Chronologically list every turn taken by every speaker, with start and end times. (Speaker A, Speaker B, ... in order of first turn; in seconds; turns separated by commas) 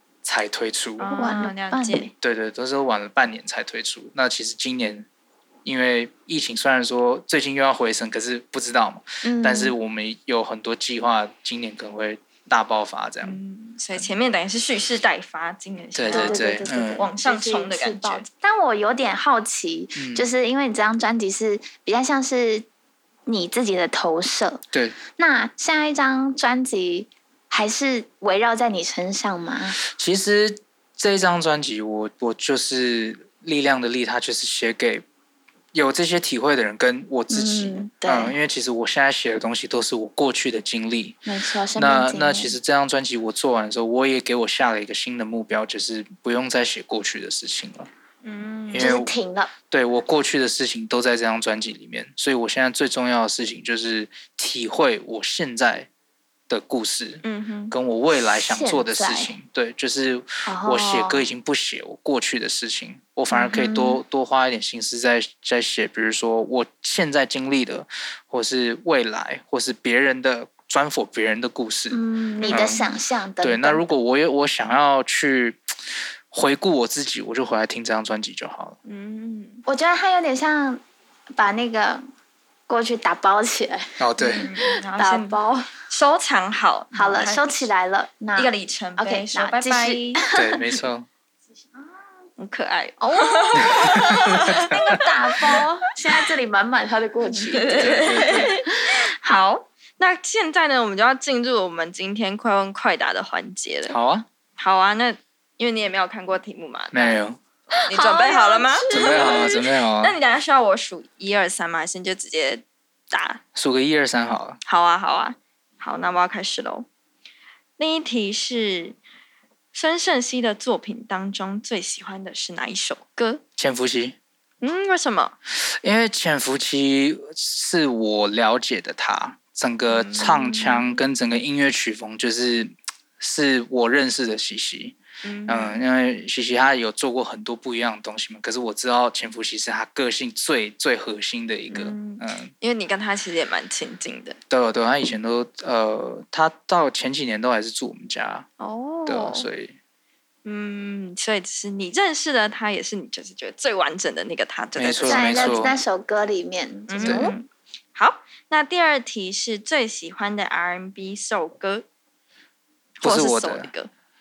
Speaker A: 0.2-1.1, Speaker B: 1.0-2.1, Speaker C: 1.1-2.1, Speaker A: 2.2-5.1, Speaker A: 5.6-13.4, Speaker C: 9.2-9.8, Speaker B: 13.2-18.3, Speaker A: 15.9-17.1, Speaker C: 16.1-22.7, Speaker A: 19.9-20.3, Speaker C: 23.3-24.6, Speaker A: 24.7-25.0, Speaker C: 25.2-29.8, Speaker A: 29.8-35.0, Speaker A: 35.7-41.2, Speaker C: 37.3-38.4, Speaker C: 41.3-42.5, Speaker A: 41.8-47.9, Speaker B: 48.2-49.0, Speaker A: 48.7-49.1, Speaker C: 48.8-49.5, Speaker A: 49.7-55.9, Speaker A: 56.5-72.9, Speaker B: 57.2-57.7, Speaker C: 58.4-59.3, Speaker C: 60.5-61.3, Speaker C: 63.3-64.0, Speaker C: 71.9-73.8, Speaker A: 73.4-78.8, Speaker B: 78.8-79.6, Speaker C: 79.7-80.8, Speaker C: 81.4-82.0, Speaker C: 82.7-85.7, Speaker A: 84.0-84.5, Speaker B: 84.3-87.6, Speaker C: 86.9-90.6, Speaker B: 88.4-90.2, Speaker A: 90.3-91.1, Speaker B: 92.4-95.6, Speaker C: 93.0-99.4, Speaker A: 93.6-94.8, Speaker B: 97.4-104.0, Speaker A: 97.7-98.6, Speaker A: 103.9-104.3, Speaker B: 104.6-107.2, Speaker A: 106.9-107.4, Speaker C: 107.7-109.6, Speaker B: 107.8-113.4, Speaker A: 108.9-110.2, Speaker A: 113.5-114.6, Speaker B: 114.7-116.9, Speaker B: 117.8-119.0, Speaker B: 119.7-123.4, Speaker A: 123.6-124.2, Speaker B: 124.6-125.3, Speaker A: 125.5-142.5, Speaker B: 129.9-130.9, Speaker B: 135.2-135.8, Speaker B: 141.7-144.4, Speaker A: 144.5-148.5, Speaker B: 148.6-149.5, Speaker A: 149.1-149.7, Speaker B: 150.4-155.8, Speaker A: 154.8-155.8, Speaker C: 155.1-157.4, Speaker B: 156.9-161.8, Speaker A: 157.0-157.3, Speaker B: 163.0-163.9, Speaker A: 163.0-163.7